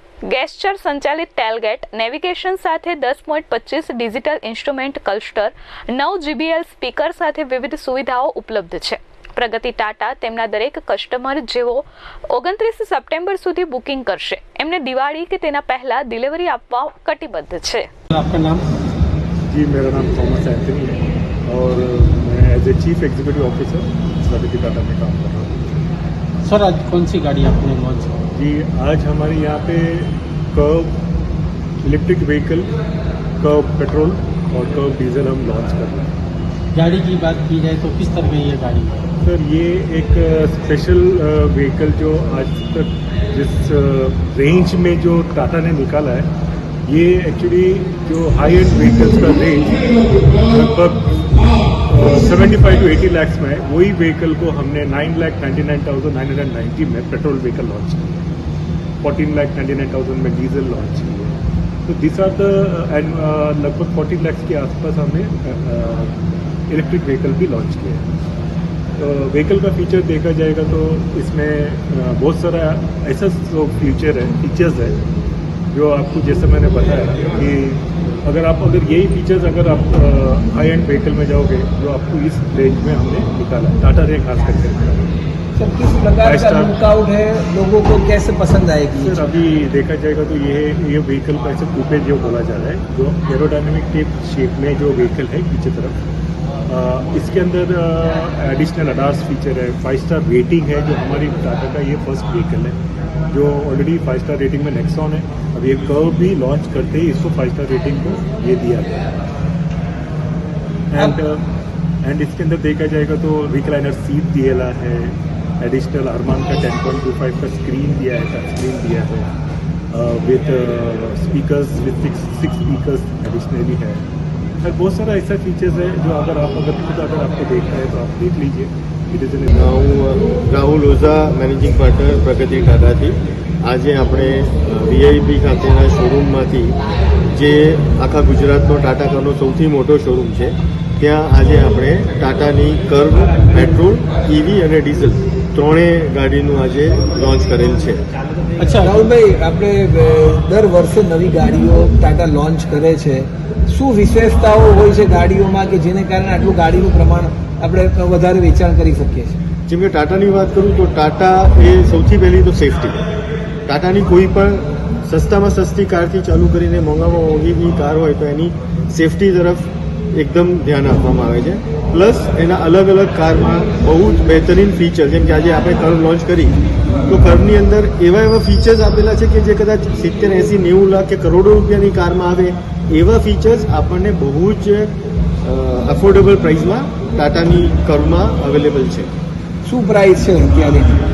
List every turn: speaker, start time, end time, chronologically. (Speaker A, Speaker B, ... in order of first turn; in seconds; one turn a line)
Speaker A: 0.2-17.9
Speaker B: 18.1-18.7
Speaker C: 19.5-25.8
Speaker B: 26.4-28.1
Speaker C: 28.3-31.0
Speaker C: 31.8-32.7
Speaker C: 33.4-36.1
Speaker B: 36.7-39.0
Speaker C: 39.2-46.3
Speaker C: 46.9-49.9
Speaker C: 50.4-51.2
Speaker C: 51.9-58.3
Speaker C: 59.0-68.1
Speaker C: 69.0-75.0
Speaker C: 75.7-85.1
Speaker D: 85.6-89.3
Speaker C: 86.2-86.8
Speaker C: 89.0-96.0
Speaker C: 96.7-102.8
Speaker C: 103.3-109.0
Speaker C: 110.9-111.5
Speaker C: 112.0-119.3
Speaker C: 119.9-124.0
Speaker C: 124.6-129.6
Speaker E: 129.5-136.8
Speaker E: 137.3-148.0
Speaker B: 148.6-149.0
Speaker D: 148.8-159.4
Speaker E: 159.7-163.0
Speaker E: 163.7-176.6
Speaker E: 177.1-189.1
Speaker D: 189.6-191.0